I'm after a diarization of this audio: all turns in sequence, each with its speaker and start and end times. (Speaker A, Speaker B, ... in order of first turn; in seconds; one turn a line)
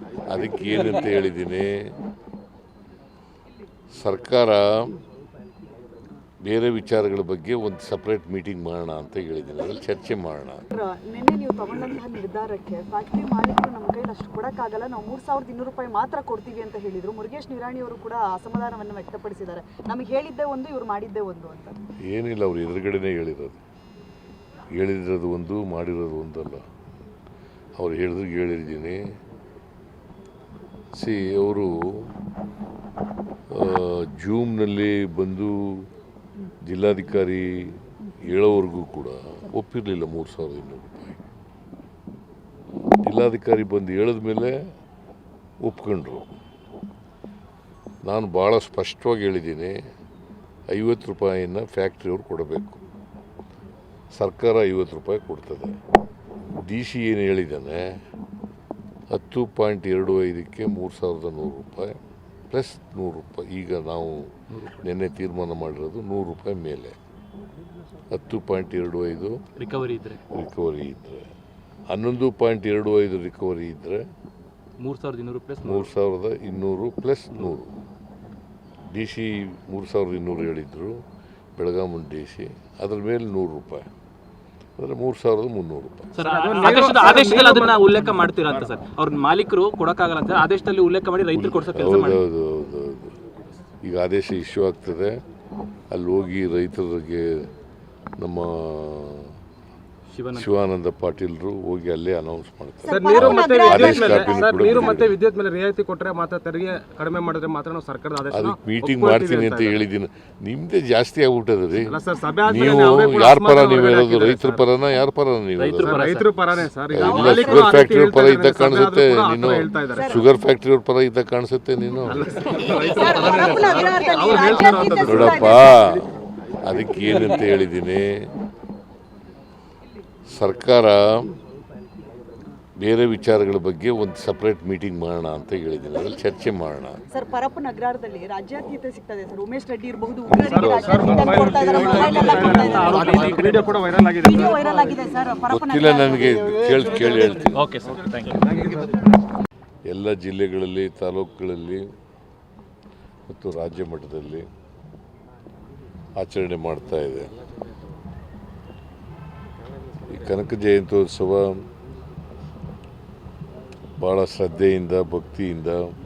Speaker A: 0.3-2.0
Speaker A: 3.9-5.0
Speaker A: 6.4-10.6
Speaker B: 10.7-21.8
Speaker A: 22.1-23.6
Speaker A: 24.7-26.6
Speaker A: 27.8-29.0
Speaker A: 30.9-32.1
Speaker A: 33.5-35.9
Speaker A: 36.6-41.2
Speaker A: 43.0-44.6
Speaker A: 45.6-46.3
Speaker A: 48.0-49.8
Speaker A: 50.7-52.8
Speaker A: 54.1-55.8
Speaker A: 56.6-58.0
Speaker A: 59.1-62.0
Speaker A: 62.5-67.0
Speaker C: 64.5-64.8
Speaker A: 68.1-69.4
Speaker C: 69.6-70.2
Speaker A: 70.3-71.3
Speaker A: 71.9-74.1
Speaker C: 74.8-75.9
Speaker A: 75.6-77.7
Speaker A: 78.9-81.0
Speaker A: 81.6-83.8
Speaker A: 84.8-86.1
Speaker C: 86.2-92.2
Speaker D: 86.2-88.7
Speaker A: 91.3-93.1
Speaker A: 93.8-95.2
Speaker A: 95.9-97.5
Speaker A: 98.2-99.3
Speaker C: 100.1-100.5
Speaker A: 100.3-105.2
Speaker B: 102.8-104.7
Speaker D: 102.9-109.8
Speaker A: 108.3-111.9
Speaker D: 111.8-114.6
Speaker A: 112.5-116.0
Speaker C: 115.6-116.3
Speaker D: 115.8-120.2
Speaker A: 116.9-122.2
Speaker B: 117.0-117.7
Speaker B: 119.9-120.2
Speaker D: 122.0-126.0
Speaker B: 122.8-125.8
Speaker A: 125.0-126.1
Speaker A: 126.6-128.2
Speaker A: 130.3-131.3
Speaker A: 132.8-137.0
Speaker B: 137.1-143.3
Speaker D: 140.3-145.1
Speaker C: 141.3-143.7
Speaker B: 144.2-147.4
Speaker A: 145.4-147.7
Speaker C: 147.4-148.5
Speaker D: 148.0-148.9
Speaker A: 149.8-151.8
Speaker A: 153.3-154.4
Speaker A: 156.2-157.3
Speaker A: 160.1-161.6
Speaker A: 164.0-165.8